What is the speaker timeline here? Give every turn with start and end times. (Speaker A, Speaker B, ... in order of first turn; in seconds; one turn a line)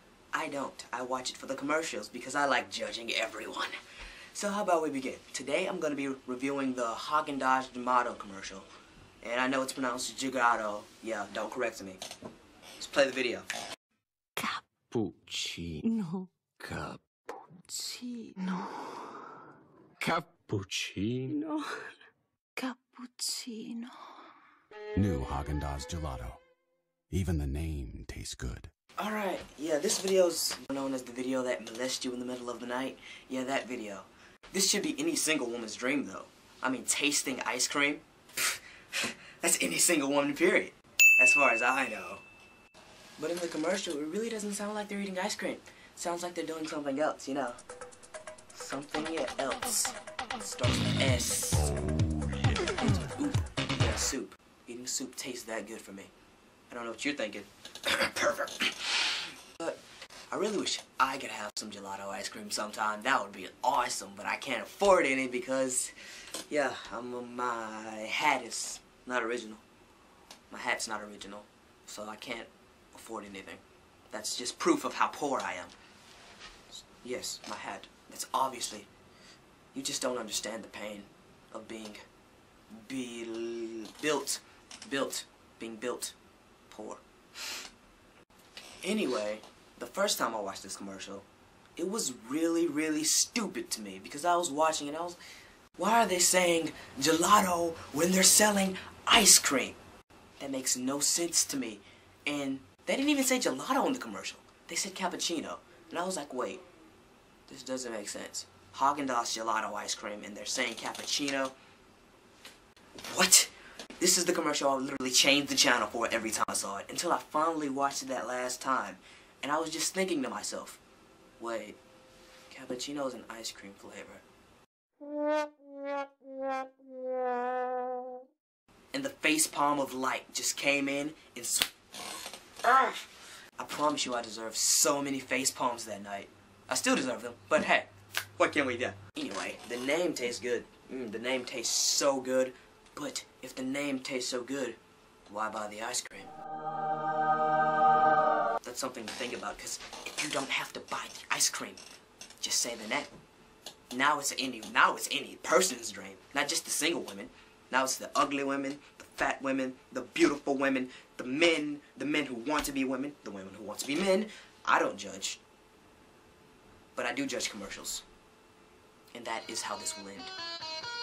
Speaker A: 0.3-3.7
Speaker A: 4.3-8.7
Speaker A: 9.2-12.0
Speaker A: 12.8-13.5
Speaker B: 14.4-14.6
Speaker C: 14.9-15.9
Speaker B: 15.8-16.5
Speaker C: 16.6-17.0
Speaker B: 17.6-18.7
Speaker C: 20.0-21.4
Speaker B: 21.3-21.7
Speaker B: 22.6-24.0
Speaker D: 25.0-26.4
Speaker D: 27.1-28.7
Speaker A: 29.0-42.2
Speaker A: 43.2-47.6
Speaker A: 48.5-51.8
Speaker D: 51.8-52.6
Speaker A: 52.8-56.1
Speaker A: 56.7-65.9
Speaker A: 66.5-69.6
Speaker A: 70.5-75.7
Speaker A: 76.7-78.9
Speaker A: 79.7-82.0
Speaker A: 82.7-86.2
Speaker A: 86.7-87.0
Speaker A: 88.8-95.2
Speaker A: 95.8-99.8
Speaker A: 100.4-106.6
Speaker A: 107.5-111.5
Speaker A: 113.0-120.8
Speaker A: 121.4-121.8
Speaker A: 122.5-124.2
Speaker A: 128.9-131.7
Speaker A: 132.6-133.1
Speaker A: 133.6-146.3
Speaker A: 148.6-151.8
Speaker A: 152.4-153.1
Speaker A: 153.9-165.4
Speaker A: 167.0-168.0
Speaker A: 169.1-170.3